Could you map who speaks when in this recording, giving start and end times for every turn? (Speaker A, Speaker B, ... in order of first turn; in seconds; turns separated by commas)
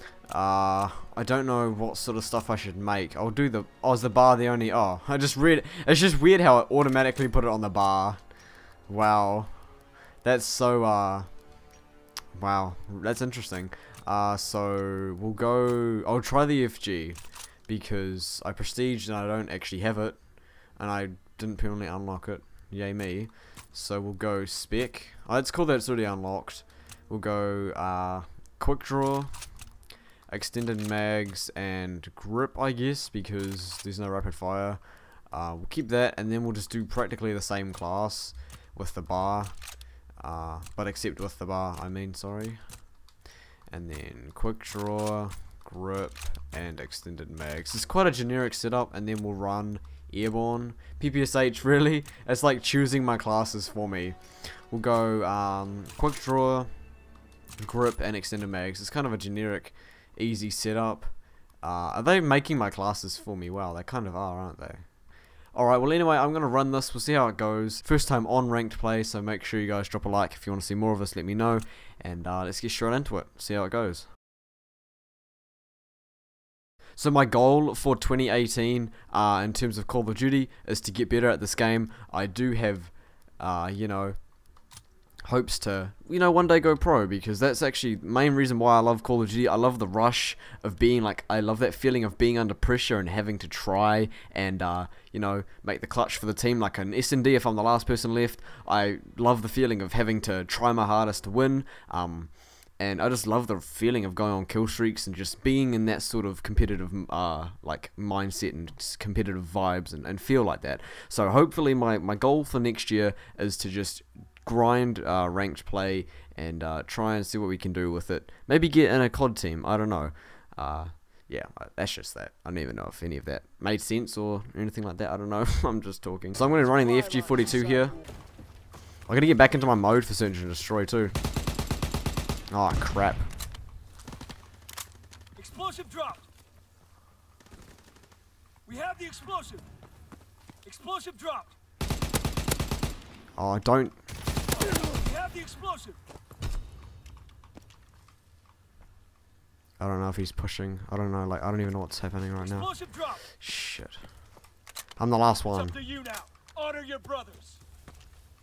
Speaker A: 0.3-8.3, Speaker A: 8.8-9.6, Speaker A: 10.2-11.4, Speaker A: 12.3-29.4, Speaker A: 30.3-42.8, Speaker A: 43.7-56.7, Speaker A: 57.6-74.1, Speaker A: 77.0-84.3, Speaker A: 85.2-127.9, Speaker B: 126.5-128.1, Speaker A: 129.1-131.2, Speaker A: 132.5-133.3, Speaker B: 135.3-136.2, Speaker B: 138.7-139.7, Speaker B: 140.6-141.5, Speaker A: 143.3-144.0, Speaker B: 144.7-146.0, Speaker A: 149.8-152.7, Speaker B: 152.4-153.2, Speaker A: 153.2-154.1, Speaker A: 154.9-155.7, Speaker B: 155.5-157.6